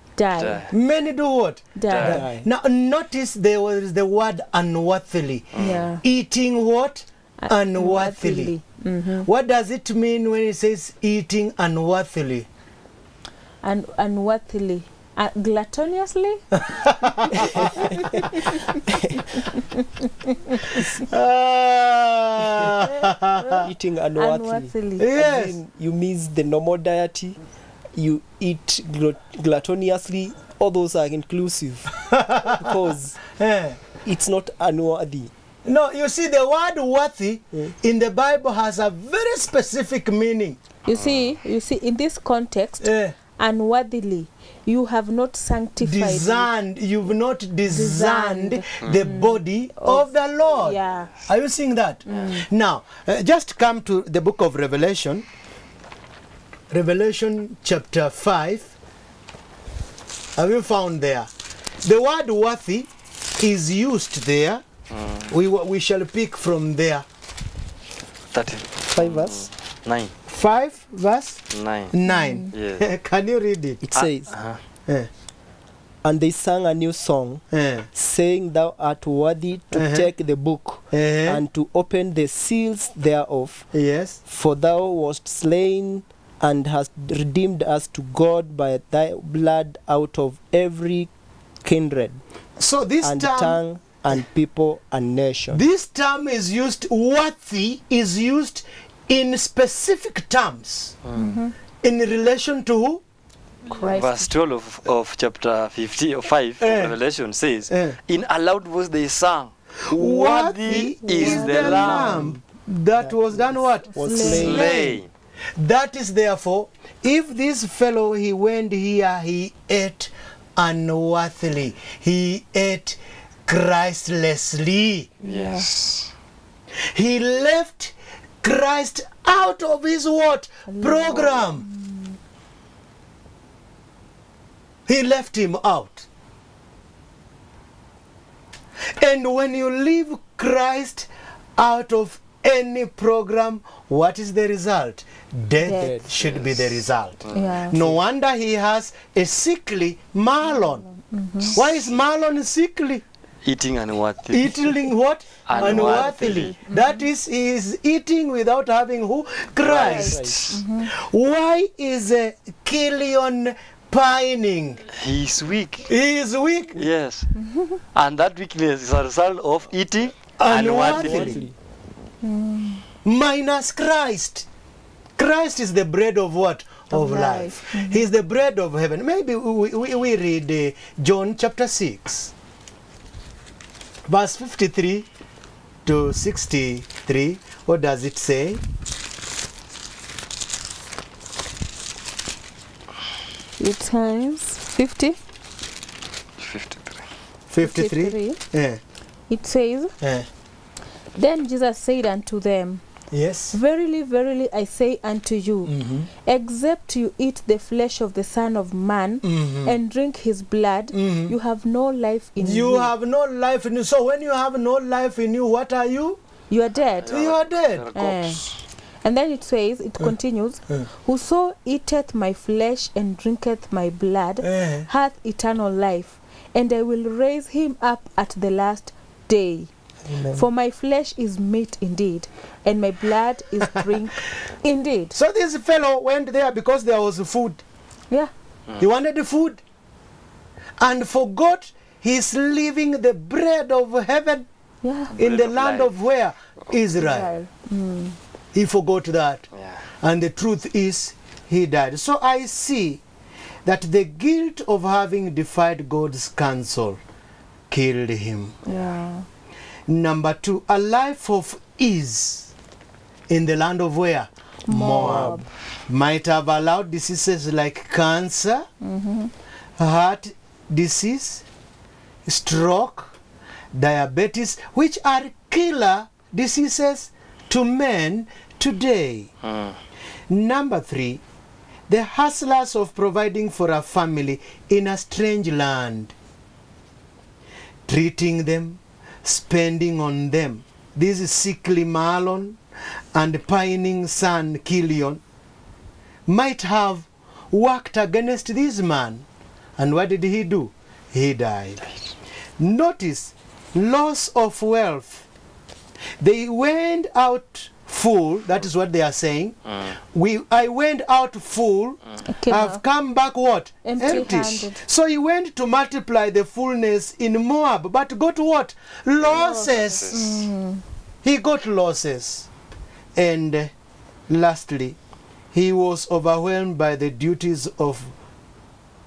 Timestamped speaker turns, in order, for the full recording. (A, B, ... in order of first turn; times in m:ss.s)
0:00.2-0:00.7 A
0:00.4-0:00.7 B
0:00.7-0:08.6 C
0:01.8-0:02.2 A
0:01.9-0:02.2 B
0:02.1-0:02.5 D
0:05.5-0:05.8 B
0:05.6-0:06.0 A
0:07.4-0:09.3 A
0:09.2-0:12.5 C
0:13.6-0:16.4 A
0:16.6-0:17.8 C
0:17.4-0:18.8 A
0:17.6-0:19.3 D
0:19.4-0:20.9 A
0:20.6-0:23.7 C
0:22.4-0:22.7 D
0:22.8-0:25.2 A
0:23.6-0:27.4 D
0:25.0-0:25.6 C
0:28.0-0:31.9 D
0:32.1-0:32.7 C
0:32.5-0:33.2 D
0:33.4-0:33.8 C
0:34.0-0:35.3 D
0:35.7-0:40.6 C
0:40.8-0:46.5 A
0:41.0-0:41.3 B
0:42.8-0:43.2 C
0:45.8-0:55.3 C
0:47.7-0:51.1 A
0:52.1-0:52.5 A
0:56.7-0:58.7 C
1:00.4-1:01.3 C
1:01.8-1:04.6 C
1:04.9-1:05.3 B
1:05.3-1:07.0 C
1:08.3-1:10.1 B
1:08.9-1:09.5 C
1:10.3-1:13.8 C
1:11.5-1:11.9 B
1:12.1-1:12.5 A
1:12.5-1:12.9 B
1:13.8-1:14.4 D
1:14.0-1:14.6 B
1:16.0-1:23.7 D
1:17.5-1:17.9 C
1:19.7-1:20.1 C
1:20.9-1:21.4 C
1:23.7-1:24.2 C
1:24.3-1:31.1 D
1:31.6-1:32.2 D
1:32.6-1:33.6 C
1:33.0-1:35.6 D
1:35.5-1:41.0 C
1:41.0-1:41.4 B
1:41.2-1:41.5 A
1:41.8-1:43.0 C
1:43.7-1:44.3 A
1:43.7-1:52.3 B
1:46.6-1:47.0 C
1:47.7-1:48.0 C
1:49.9-1:55.0 C
1:51.1-1:52.2 A
1:51.7-1:52.4 D
1:53.0-1:54.9 D
1:53.9-1:54.9 A
1:54.2-1:55.1 B
1:55.6-2:05.1 C
2:05.2-2:05.7 A
2:05.2-2:06.1 B
2:06.9-2:11.7 C
2:10.7-2:12.2 A
2:14.9-2:16.1 C
2:19.0-2:30.9 C
2:25.6-2:26.0 A
2:25.8-2:26.1 D
2:26.2-2:27.5 B
2:27.3-2:27.9 A
2:30.4-2:31.6 A
2:31.5-2:31.9 B
2:31.5-2:33.0 C
2:33.4-2:34.8 B
2:34.3-2:40.4 C
2:35.5-2:36.6 B
2:35.6-2:37.1 A
2:39.6-2:40.6 B
2:39.8-2:40.4 D
2:39.8-2:40.9 A
2:40.9-2:44.8 C
2:44.9-2:45.9 B
2:45.9-2:46.8 C
2:46.8-2:47.3 B
2:47.4-2:47.8 A
2:47.9-2:51.4 B
2:50.4-2:51.4 C
2:50.7-2:51.6 D
2:52.2-2:52.8 A
2:53.0-2:54.5 C
2:55.2-3:02.3 C
2:56.9-2:58.1 A
3:04.1-3:05.1 C
3:05.8-3:08.6 C
3:13.6-3:15.2 A
3:16.4-3:17.0 B
3:17.5-3:18.8 C
3:17.6-3:18.4 A
3:19.3-3:19.9 A
3:20.0-3:20.3 C
3:21.2-3:22.8 A
3:23.1-3:23.6 C
3:23.5-3:32.9 A
3:25.7-3:26.1 C
3:29.2-3:29.8 C
3:30.9-3:31.4 C
3:32.4-3:36.2 C
3:36.5-3:37.2 A
3:37.0-3:38.6 B
3:37.1-3:37.9 C
3:37.9-3:38.4 A
3:39.0-3:49.7 A
3:44.4-3:44.9 C
3:50.1-3:50.4 C
3:50.3-3:55.2 A
3:55.2-3:57.6 C
3:58.8-3:59.6 C
4:00.8-4:04.5 C
4:04.8-4:05.1 A
4:05.2-4:07.3 C
4:05.2-4:06.0 B
4:07.0-4:08.2 A
4:08.5-4:09.5 C
4:09.6-4:09.8 B
4:10.0-4:13.0 C
4:13.6-4:17.0 C
4:17.7-4:18.6 C
4:18.6-4:19.3 A
4:19.9-4:22.5 C
4:23.3-4:28.7 C
4:24.7-4:25.5 A
4:25.0-4:25.4 D
4:28.8-4:29.3 A
4:29.8-4:31.4 C
4:32.3-4:33.1 C
4:33.7-4:39.3 C
4:39.4-4:39.8 B
4:40.3-4:41.2 C
4:41.9-4:46.1 C
4:47.9-4:52.6 C
4:53.1-4:55.2 C
4:56.3-4:59.3 C
4:59.8-5:01.9 C
5:02.6-5:05.3 C
5:06.2-5:09.6 C
5:09.7-5:09.9 B
5:10.1-5:20.3 C
5:12.2-5:12.8 A
5:13.8-5:14.8 A
5:19.2-5:20.4 B
5:19.3-5:20.8 A
5:21.2-5:22.5 C
5:23.2-5:23.7 C
5:24.3-5:25.0 C
5:25.5-5:28.1 C